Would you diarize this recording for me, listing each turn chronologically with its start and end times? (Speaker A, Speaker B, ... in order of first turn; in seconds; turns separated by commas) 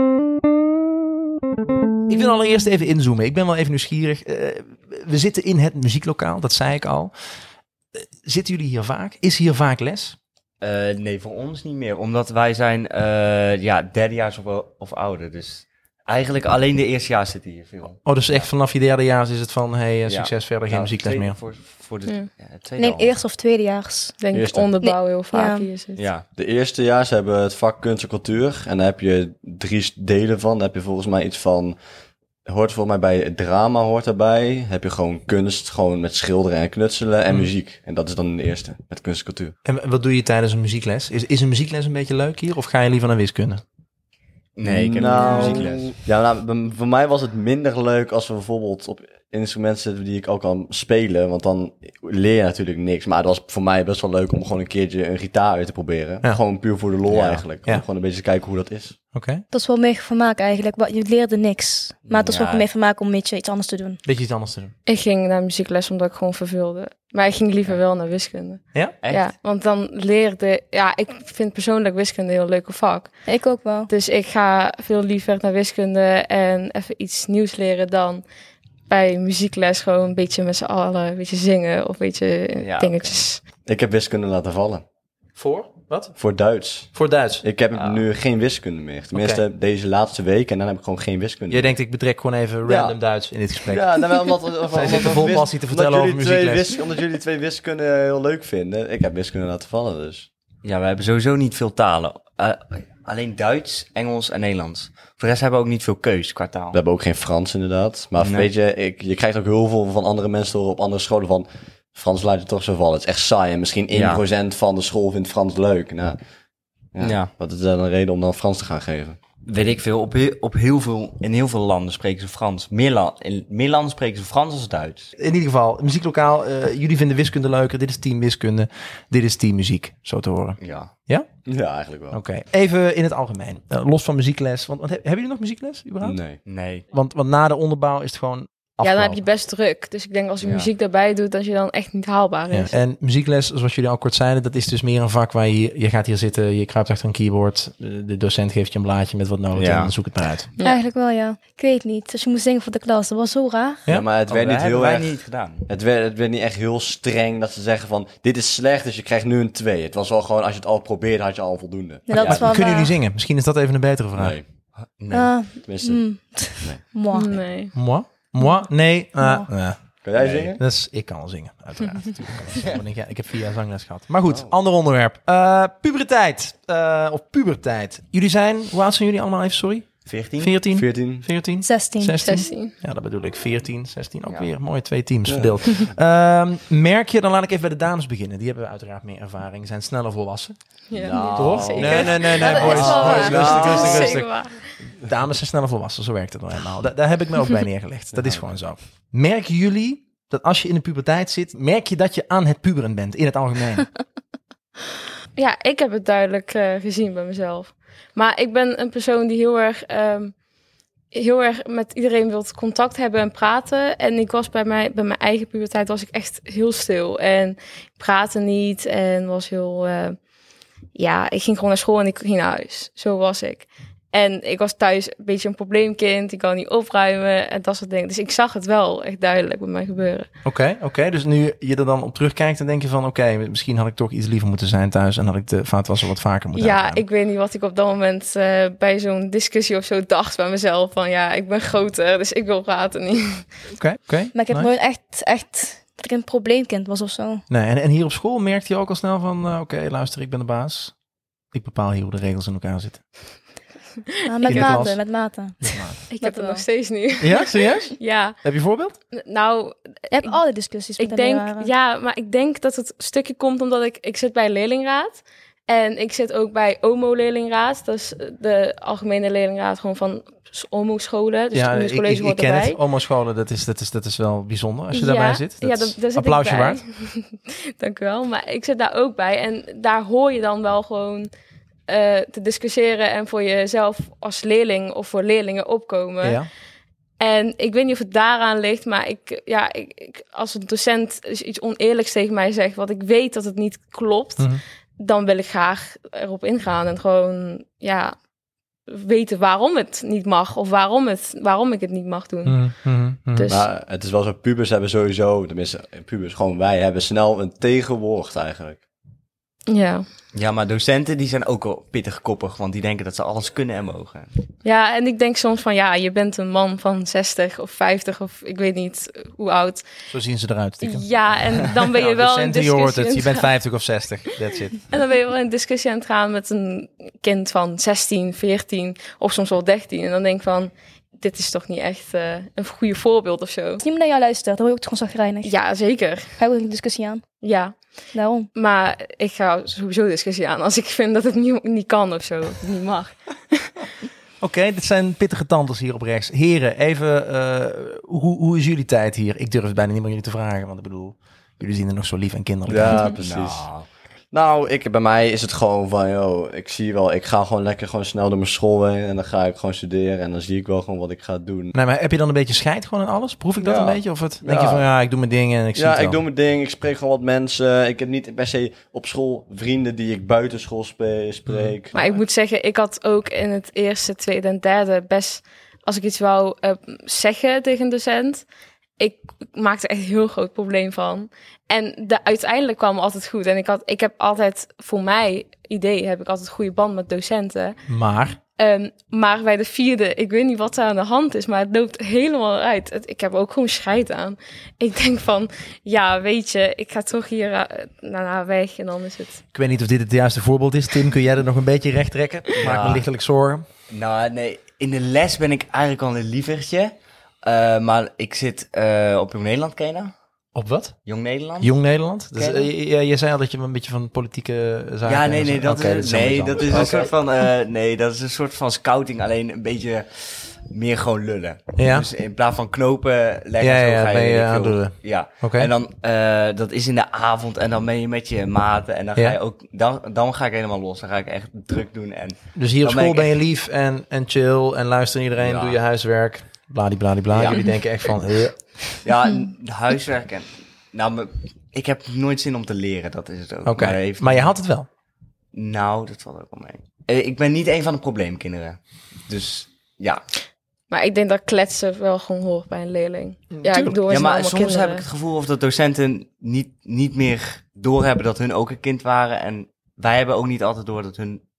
Speaker A: 2.1-7.1, Speaker A: 7.9-10.2, Speaker B: 10.6-18.5, Speaker A: 18.0-21.4, Speaker B: 20.1-23.2, Speaker C: 22.8-24.1, Speaker D: 24.2-26.1, Speaker E: 24.3-24.7, Speaker C: 24.8-25.7, Speaker B: 26.0-26.2, Speaker E: 26.4-31.8, Speaker E: 32.5-39.5, Speaker A: 39.6-43.6, Speaker B: 44.5-45.8, Speaker E: 44.6-59.0, Speaker C: 45.2-45.6, Speaker D: 45.2-45.5, Speaker B: 57.1-57.4, Speaker A: 59.1-59.4, Speaker C: 59.5-64.0, Speaker B: 62.1-62.7, Speaker A: 64.0-64.7, Speaker D: 64.9-73.2, Speaker B: 69.0-69.3, Speaker C: 73.2-73.9, Speaker D: 73.9-78.2, Speaker D: 78.9-83.4, Speaker B: 82.6-83.3, Speaker E: 83.7-84.8, Speaker A: 85.3-86.2, Speaker E: 86.2-91.7, Speaker A: 86.9-87.4, Speaker B: 87.7-88.0, Speaker A: 89.1-89.4, Speaker A: 91.5-93.9, Speaker E: 92.6-93.0, Speaker E: 93.7-100.3, Speaker A: 94.7-96.7, Speaker B: 100.6-106.8, Speaker E: 106.7-116.2, Speaker B: 108.2-108.5, Speaker B: 113.9-114.2, Speaker E: 116.9-119.2, Speaker B: 117.0-117.3, Speaker B: 119.5-125.1, Speaker A: 125.2-131.3, Speaker B: 130.6-130.9, Speaker E: 131.4-132.2, Speaker A: 132.1-136.2, Speaker E: 136.0-136.4, Speaker B: 136.4-136.8, Speaker A: 136.9-139.2, Speaker D: 138.8-142.8, Speaker B: 140.4-140.7, Speaker A: 142.5-150.5, Speaker B: 149.5-149.9, Speaker D: 150.6-150.8, Speaker C: 150.6-153.8, Speaker E: 153.9-162.5, Speaker B: 154.3-155.7, Speaker C: 162.1-162.9, Speaker B: 162.1-162.4, Speaker A: 162.2-164.4, Speaker E: 164.2-164.4, Speaker B: 164.9-165.3, Speaker C: 165.1-167.3, Speaker E: 165.6-166.8, Speaker D: 167.1-167.8, Speaker A: 167.7-170.0, Speaker C: 168.4-169.5, Speaker E: 170.0-170.6, Speaker B: 170.2-170.5, Speaker A: 170.6-190.6, Speaker E: 174.3-174.5, Speaker B: 180.1-180.5, Speaker E: 180.7-181.2, Speaker C: 181.6-182.4, Speaker D: 182.2-182.8, Speaker E: 185.3-185.7, Speaker D: 190.9-194.6, Speaker E: 191.0-194.2, Speaker A: 191.3-203.9, Speaker B: 192.4-193.8, Speaker C: 192.7-193.1, Speaker E: 198.1-198.5, Speaker D: 205.3-210.3, Speaker D: 211.1-220.2, Speaker D: 220.9-230.3, Speaker A: 230.4-237.0, Speaker D: 236.5-243.5, Speaker A: 243.8-244.7, Speaker C: 244.3-247.4, Speaker A: 247.5-250.9, Speaker A: 251.5-253.0, Speaker D: 254.1-254.7, Speaker C: 254.2-256.6, Speaker A: 254.4-256.0, Speaker D: 256.1-258.4, Speaker A: 257.2-258.9, Speaker D: 259.1-260.4, Speaker C: 260.1-261.7, Speaker D: 261.0-272.8, Speaker A: 271.5-276.8, Speaker D: 274.9-281.3, Speaker D: 281.9-286.4, Speaker A: 286.2-286.5, Speaker D: 287.2-298.1, Speaker D: 298.9-302.8, Speaker A: 302.4-303.5, Speaker D: 303.3-303.6, Speaker E: 303.5-308.8, Speaker D: 309.7-310.0, Speaker B: 310.3-314.3, Speaker D: 314.6-319.9, Speaker A: 320.1-324.8, Speaker D: 320.8-323.5, Speaker D: 324.9-333.8, Speaker C: 333.8-335.5, Speaker D: 335.4-336.3, Speaker C: 336.4-337.3, Speaker D: 337.4-337.8, Speaker C: 338.1-338.5, Speaker D: 338.5-343.8, Speaker A: 344.4-353.1, Speaker E: 352.7-353.7, Speaker B: 353.2-353.9, Speaker E: 354.3-361.7, Speaker A: 361.7-366.2, Speaker E: 363.6-364.9, Speaker E: 365.7-372.1, Speaker A: 371.5-371.7, Speaker D: 371.9-378.5, Speaker D: 379.0-387.8, Speaker A: 387.9-388.4, Speaker D: 388.5-399.4, Speaker A: 399.5-403.6, Speaker B: 402.6-403.0, Speaker B: 403.9-406.9, Speaker B: 407.4-410.1, Speaker A: 410.5-410.9, Speaker B: 411.0-411.7, Speaker A: 411.6-417.1, Speaker B: 412.3-412.7, Speaker B: 415.1-433.3, Speaker A: 421.8-422.1, Speaker A: 423.6-425.7, Speaker A: 432.5-438.6, Speaker B: 435.4-435.8, Speaker B: 437.3-437.7, Speaker B: 439.0-444.5, Speaker A: 443.6-444.9, Speaker B: 445.5-450.2, Speaker D: 450.9-455.0, Speaker A: 453.5-454.0, Speaker B: 454.1-461.4